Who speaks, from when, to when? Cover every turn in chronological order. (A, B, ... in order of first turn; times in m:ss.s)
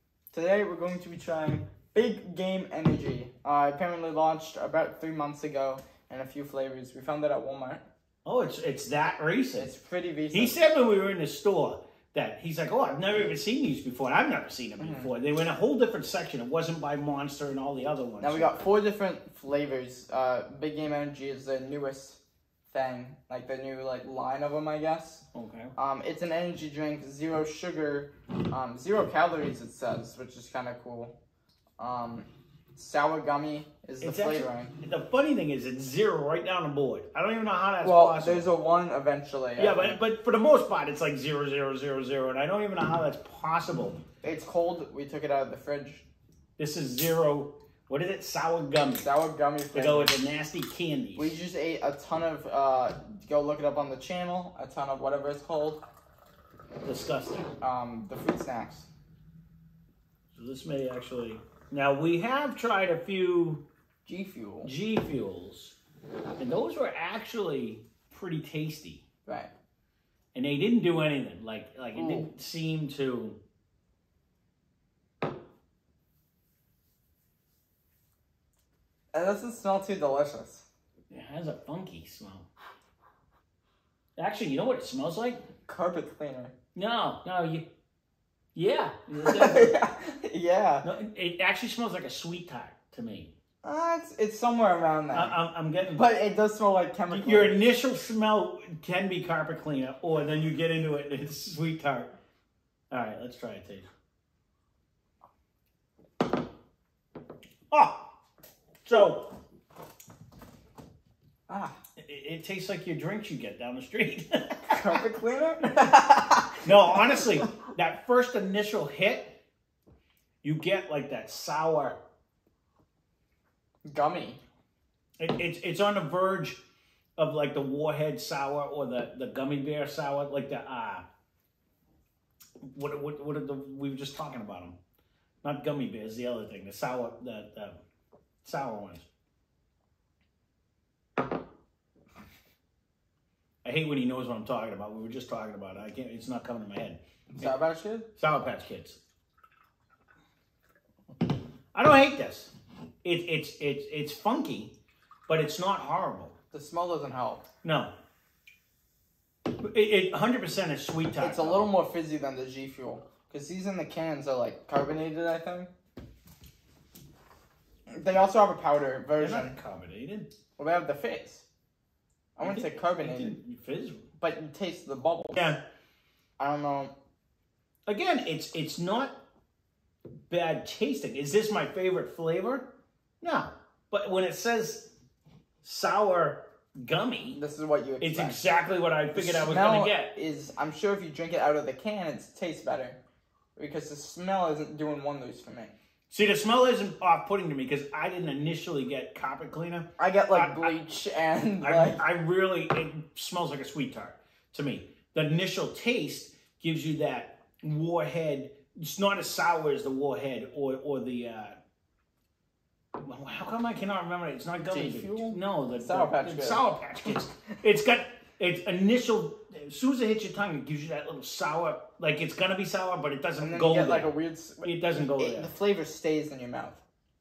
0:00.3-0:07.8 A
0:08.2-0:09.7 B
0:09.6-0:10.6 A
0:10.3-0:18.6 B
0:13.0-0:13.3 A
0:14.8-0:15.1 A
0:18.2-0:22.2 A
0:22.7-0:25.2 A
0:25.3-0:25.7 B
0:25.8-0:31.1 A
0:31.8-0:34.7 A
0:34.0-0:38.5 B
0:37.8-0:40.0 A
0:39.6-0:44.0 B
0:44.2-0:46.0 A
0:46.6-0:49.1 B
0:49.0-0:50.1 A
0:49.7-0:51.4 B
0:51.2-0:55.8 A
0:56.8-0:57.5 B
0:57.6-0:58.9 A
1:00.3-1:03.6 B
1:04.0-1:04.7 A
1:04.6-1:05.8 B
1:06.4-1:09.0 B
1:09.3-1:09.5 A
1:10.3-1:13.4 B
1:11.9-1:12.3 A
1:19.1-1:20.6 A
1:21.1-1:22.5 B
1:24.2-1:25.4 B
1:25.7-1:26.5 A
1:26.8-1:27.6 B
1:28.6-1:29.8 B
1:29.2-1:30.9 A
1:30.8-1:33.3 B
1:33.6-1:35.4 A
1:35.1-1:36.0 B
1:35.9-1:37.6 A
1:37.1-1:42.1 B
1:42.9-1:43.9 B
1:47.7-1:48.1 B
1:48.8-1:49.4 B
1:51.5-1:51.8 A
1:52.0-1:55.1 B
1:54.7-1:57.3 A
1:55.6-1:55.9 B
1:56.6-1:59.4 B
2:00.4-2:02.0 B
2:03.8-2:04.4 A
2:05.2-2:06.6 B
2:07.2-2:11.0 B
2:12.6-2:14.8 B
2:15.4-2:17.8 B
2:18.4-2:19.1 B
2:23.6-2:27.5 B
2:27.4-2:28.1 A
2:28.2-2:29.0 B
2:31.8-2:32.5 B
2:33.0-2:34.7 B
2:35.3-2:36.3 B
2:36.5-2:37.4 A
2:37.6-2:37.9 B
2:39.5-2:41.7 B
2:41.2-2:45.7 A
2:47.9-2:49.6 A
2:49.2-2:50.3 B
2:50.6-2:51.4 A
2:52.4-2:53.4 A
2:52.4-2:54.0 B
2:54.2-2:55.4 A
2:55.4-2:55.6 B
2:56.4-2:56.9 A
2:57.9-2:59.2 B
3:00.3-3:02.7 B
3:03.2-3:04.9 B
3:05.6-3:07.4 B
3:07.4-3:08.4 A
3:08.0-3:10.1 B
3:09.1-3:13.0 A
3:13.6-3:15.7 A
3:16.1-3:20.7 B
3:20.0-3:22.0 A
3:21.6-3:31.6 B
3:33.0-3:45.5 B
3:34.7-3:36.6 A
3:43.4-3:46.8 A